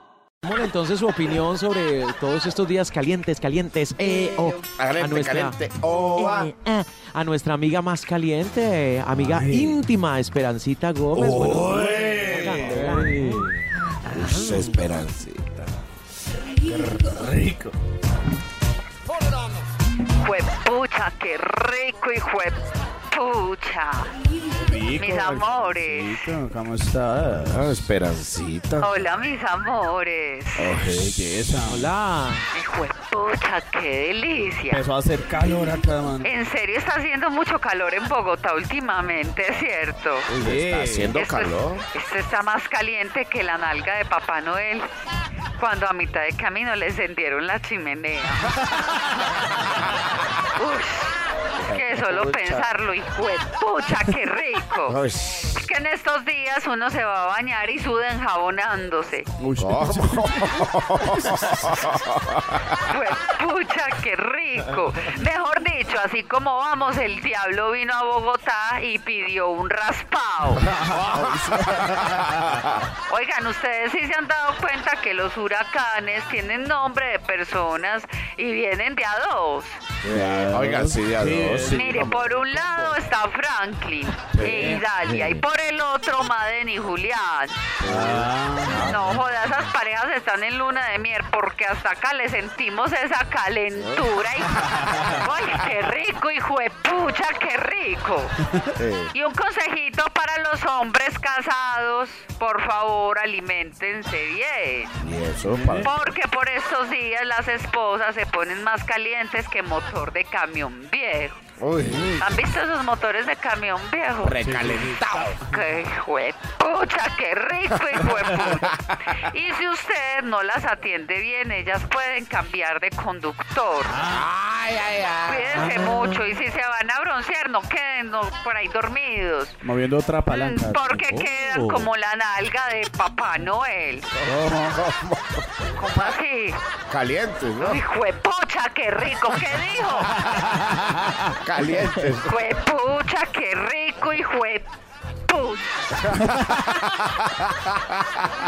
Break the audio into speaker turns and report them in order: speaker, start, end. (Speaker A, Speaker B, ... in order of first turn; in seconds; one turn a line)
Speaker A: 0.4-5.6
Speaker B: 4.8-6.5
Speaker A: 6.2-14.7
Speaker C: 9.1-9.8
Speaker C: 11.1-13.5
Speaker B: 12.5-12.8
Speaker B: 14.1-15.8
Speaker C: 16.6-17.8
Speaker D: 20.2-24.2
Speaker C: 24.5-27.8
Speaker D: 25.0-26.3
Speaker B: 27.3-29.1
Speaker D: 28.8-30.7
Speaker B: 30.6-31.2
Speaker C: 30.9-31.9
Speaker A: 31.6-32.5
Speaker D: 32.5-34.8
Speaker C: 34.7-36.3
Speaker D: 36.2-40.3
Speaker C: 40.3-41.1
Speaker B: 40.4-41.8
Speaker D: 41.1-44.9
Speaker D: 45.6-48.5
Speaker D: 50.5-55.0
Speaker B: 51.6-52.8
Speaker B: 54.9-55.7
Speaker D: 55.5-59.3
Speaker C: 59.4-61.8
Speaker B: 59.6-62.8
Speaker D: 62.8-70.7
Speaker C: 70.6-72.6
Speaker B: 70.8-72.7
Speaker D: 73.1-79.8
Speaker C: 80.0-82.4
Speaker B: 80.0-82.8
Speaker D: 81.7-87.6
Speaker C: 84.3-84.8
Speaker B: 85.0-85.4
Speaker B: 87.8-89.1
Speaker C: 87.8-89.0
Speaker D: 88.8-98.3
Speaker B: 93.7-94.2
Speaker C: 94.7-95.1
Speaker B: 98.8-99.1
Speaker D: 99.1-104.9
Speaker B: 105.0-106.1
Speaker C: 105.4-105.9
Speaker D: 105.8-111.4
Speaker B: 111.6-112.4
Speaker C: 111.8-112.2
Speaker D: 112.2-114.4
Speaker B: 114.2-115.4
Speaker C: 114.4-115.0
Speaker D: 115.5-124.0
Speaker B: 117.7-118.8
Speaker C: 123.9-124.3
Speaker B: 124.1-125.9
Speaker D: 125.2-129.6
Speaker A: 125.9-126.2
Speaker C: 129.6-131.8
Speaker D: 130.3-134.1
Speaker B: 134.2-135.4
Speaker C: 134.2-134.8
Speaker D: 135.8-136.6
Speaker B: 136.9-137.8
Speaker D: 137.6-140.2
Speaker C: 140.2-141.3
Speaker B: 141.3-142.4
Speaker D: 142.2-144.7
Speaker D: 145.3-146.0
Speaker B: 146.2-148.0